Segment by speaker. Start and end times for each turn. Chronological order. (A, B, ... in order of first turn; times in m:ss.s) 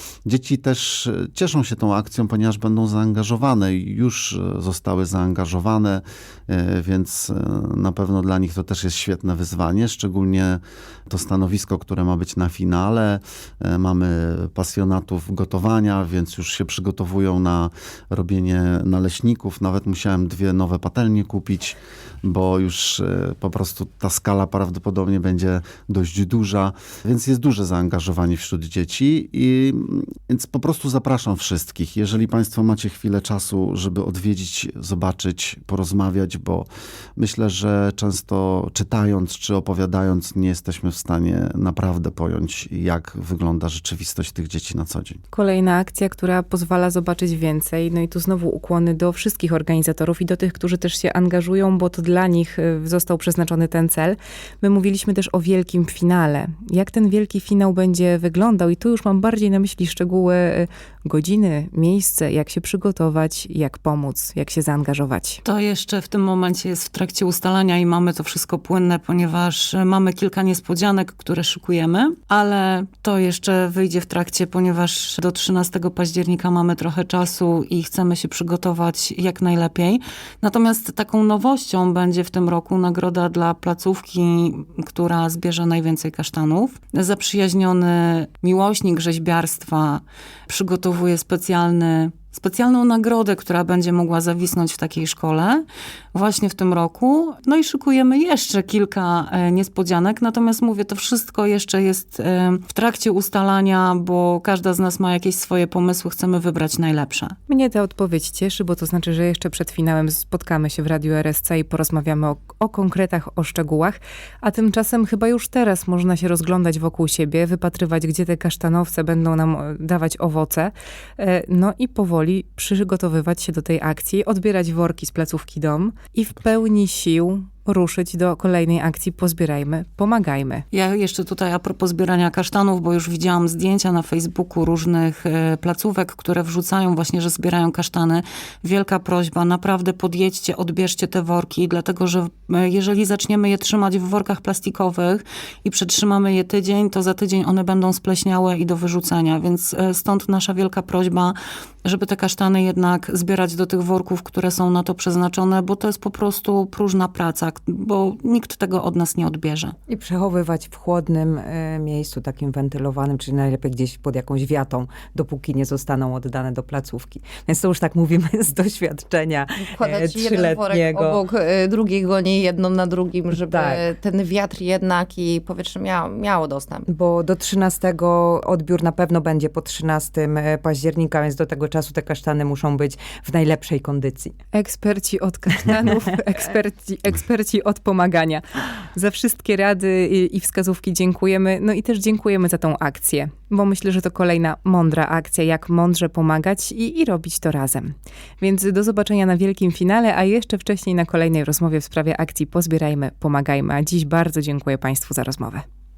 0:00.2-0:45.2 A
0:45.3-1:05.4 B
1:05.4-1:47.4 C
1:47.5-2:10.6 B
2:10.7-2:39.7 C
2:39.9-2:51.2 D
2:49.6-2:56.8 E
2:53.3-2:53.8 D
2:56.9-3:04.3 D
3:04.5-3:08.4 B
3:08.9-3:25.6 B